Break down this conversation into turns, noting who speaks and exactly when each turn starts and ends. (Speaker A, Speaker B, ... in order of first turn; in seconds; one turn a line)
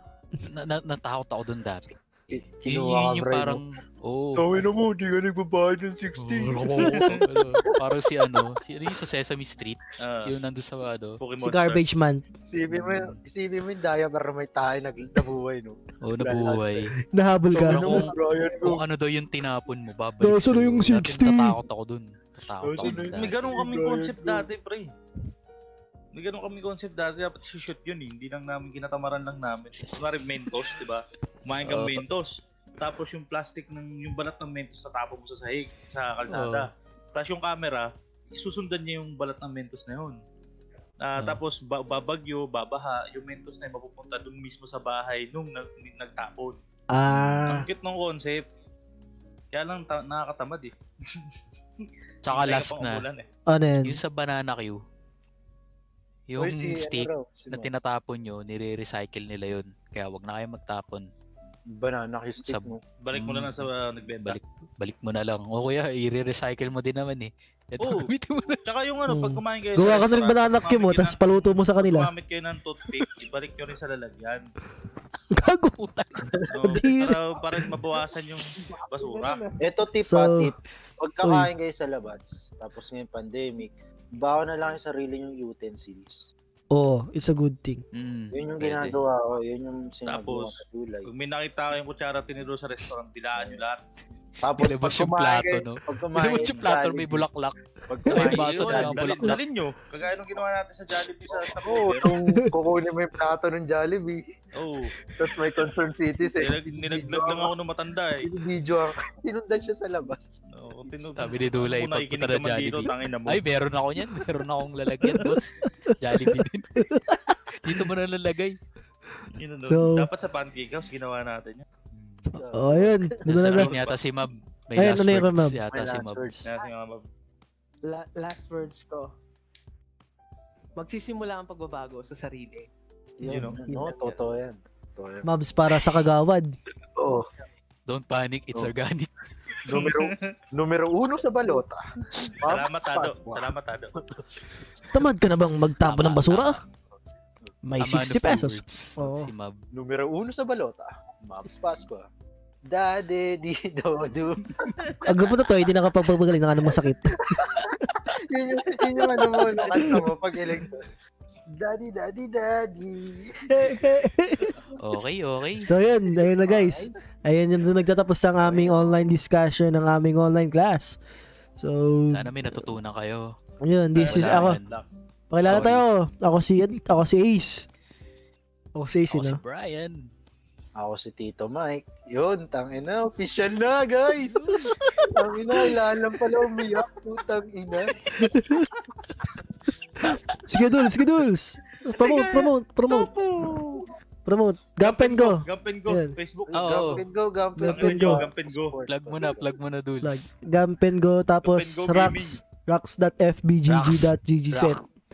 Speaker A: 0.4-4.7
Speaker B: 2.3-3.6
Speaker B: 4.4-7.1
Speaker A: 6.2-11.2
Speaker C: 6.8-7.2
Speaker C: 10.0-10.3
Speaker C: 11.2-11.8
Speaker D: 11.4-12.2
Speaker B: 12.4-16.9
Speaker A: 12.7-13.2
Speaker A: 16.0-16.9
Speaker D: 17.0-18.1
Speaker B: 17.5-18.8
Speaker A: 17.6-23.7
Speaker D: 20.2-21.6
Speaker B: 22.6-24.5
Speaker C: 22.8-24.9
Speaker C: 26.1-40.2
Speaker A: 31.6-32.0
Speaker A: 36.3-36.7
Speaker C: 41.0-46.6
Speaker D: 46.9-47.7
Speaker C: 47.4-48.4
Speaker C: 49.5-51.3
Speaker C: 51.8-53.2
Speaker A: 52.2-53.0
Speaker D: 53.5-54.0
Speaker A: 53.8-54.8
Speaker A: 56.3-61.1
Speaker B: 56.4-57.7
Speaker B: 61.7-62.8
Speaker A: 62.4-63.7
Speaker C: 63.0-64.4
Speaker A: 64.2-68.6
Speaker C: 67.8-68.1
Speaker C: 68.7-74.5
Speaker D: 69.1-72.1
Speaker D: 75.3-75.7
Speaker A: 75.5-76.3
Speaker C: 76.5-79.4
Speaker D: 76.6-77.2
Speaker E: 78.6-79.6
Speaker B: 79.6-86.3
Speaker D: 80.0-80.5
Speaker D: 81.2-81.5
Speaker D: 86.7-87.8
Speaker A: 87.9-89.0
Speaker B: 88.3-91.1
Speaker C: 90.0-93.8
Speaker B: 94.4-97.3
Speaker A: 94.5-97.5
Speaker B: 97.9-99.1
Speaker A: 98.1-99.4
Speaker C: 98.1-102.1
Speaker B: 101.3-104.2
Speaker D: 102.0-102.5
Speaker C: 104.5-105.0
Speaker B: 105.0-107.5
Speaker C: 106.4-108.2
Speaker B: 108.2-111.3
Speaker C: 110.5-113.4
Speaker A: 111.2-118.5
Speaker D: 115.0-117.2
Speaker C: 119.4-121.6
Speaker D: 119.7-120.1
Speaker A: 121.9-122.3
Speaker B: 122.3-123.1
Speaker D: 122.4-123.7
Speaker A: 123.2-126.3
Speaker C: 123.4-124.0
Speaker D: 124.8-125.6
Speaker B: 125.7-126.5
Speaker C: 126.5-127.0
Speaker E: 127.8-129.1
Speaker E: 130.8-132.7
Speaker B: 133.2-135.2
Speaker C: 133.2-133.6
Speaker D: 135.2-136.6
Speaker B: 137.0-137.3
Speaker A: 137.9-139.2
Speaker B: 139.6-144.2
Speaker C: 139.7-140.3
Speaker C: 142.4-143.9
Speaker D: 144.9-146.6
Speaker A: 145.8-146.6
Speaker D: 147.6-149.3
Speaker A: 147.8-149.6
Speaker B: 149.7-152.1
Speaker B: 152.7-155.0
Speaker D: 155.0-157.4
Speaker B: 156.6-160.8
Speaker D: 159.7-160.1
Speaker B: 161.5-163.8
Speaker D: 163.5-164.6
Speaker A: 164.7-165.7
Speaker D: 165.6-171.0
Speaker B: 166.1-166.9
Speaker B: 168.4-169.0
Speaker D: 171.6-172.7
Speaker A: 172.1-173.3
Speaker D: 173.6-174.6
Speaker C: 173.9-174.8
Speaker A: 174.0-174.7
Speaker D: 175.3-177.7
Speaker A: 175.4-175.8
Speaker D: 178.8-179.4
Speaker A: 179.1-180.1
Speaker B: 180.8-187.9
Speaker D: 184.6-185.6
Speaker D: 188.2-188.7
Speaker D: 190.0-193.1
Speaker A: 190.0-190.3
Speaker C: 192.0-193.8
Speaker D: 194.2-196.1
Speaker C: 194.8-197.0
Speaker B: 196.5-199.5
Speaker A: 196.5-197.0
Speaker D: 197.6-198.2
Speaker C: 197.6-198.8
Speaker A: 198.9-200.3
Speaker D: 200.0-204.8
Speaker C: 201.4-202.4
Speaker C: 203.7-204.0
Speaker A: 204.5-204.8